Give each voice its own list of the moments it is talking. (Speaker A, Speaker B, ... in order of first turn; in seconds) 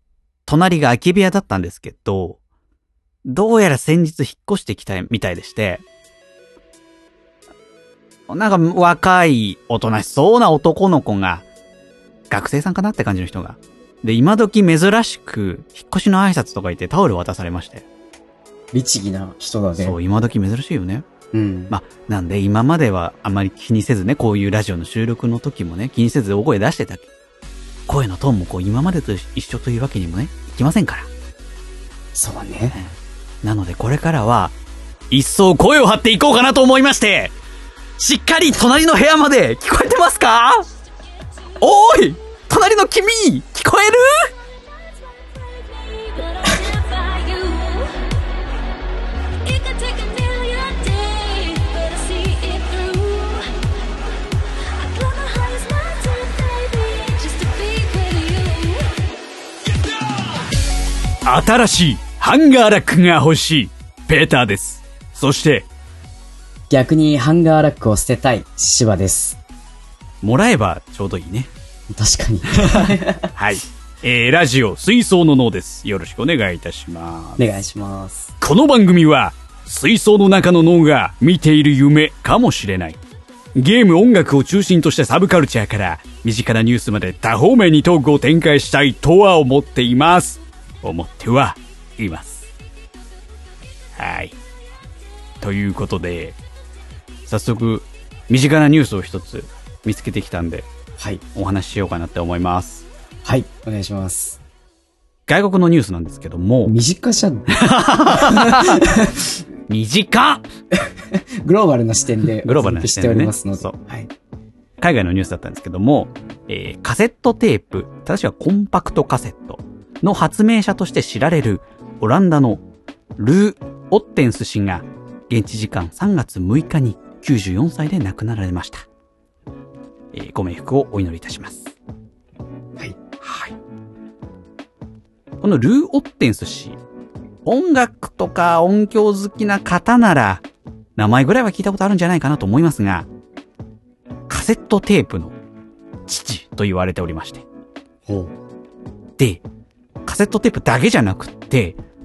Speaker A: 0.5-2.4, 3.2-5.8, 8.3-11.4, 12.3-17.9, 19.8-21.1, 21.7-27.1, 27.9-31.1, 33.4-34.5, 35.1-37.3, 38.0-40.6, 41.6-44.3, 61.2-65.7, 70.2-71.5, 72.5-77.5, 78.4-83.0, 83.5-92.5, 94.0-94.3, 95.4-96.4, 97.3-100.7, 101.3-102.8, 105.3-106.7, 107.5-108.9, 109.7-110.4, 112.4-113.8, 114.8-122.6, 123.2-128.8, 130.1-131.7, 133.2-133.5, 135.4-136.8, 137.4-140.4, 140.9-143.1, 144.3-145.3, 146.1-147.4, 149.2-149.4, 150.0-151.8
Speaker B: 18.7-19.9, 21.3-21.7, 32.1-32.8, 66.7-69.4, 71.9-73.3, 77.4-78.3, 101.0-101.2, 103.2-104.4, 106.6-109.3, 110.7-114.1, 148.1-148.3
Speaker C: 44.9-48.0, 49.4-53.5, 54.7-58.9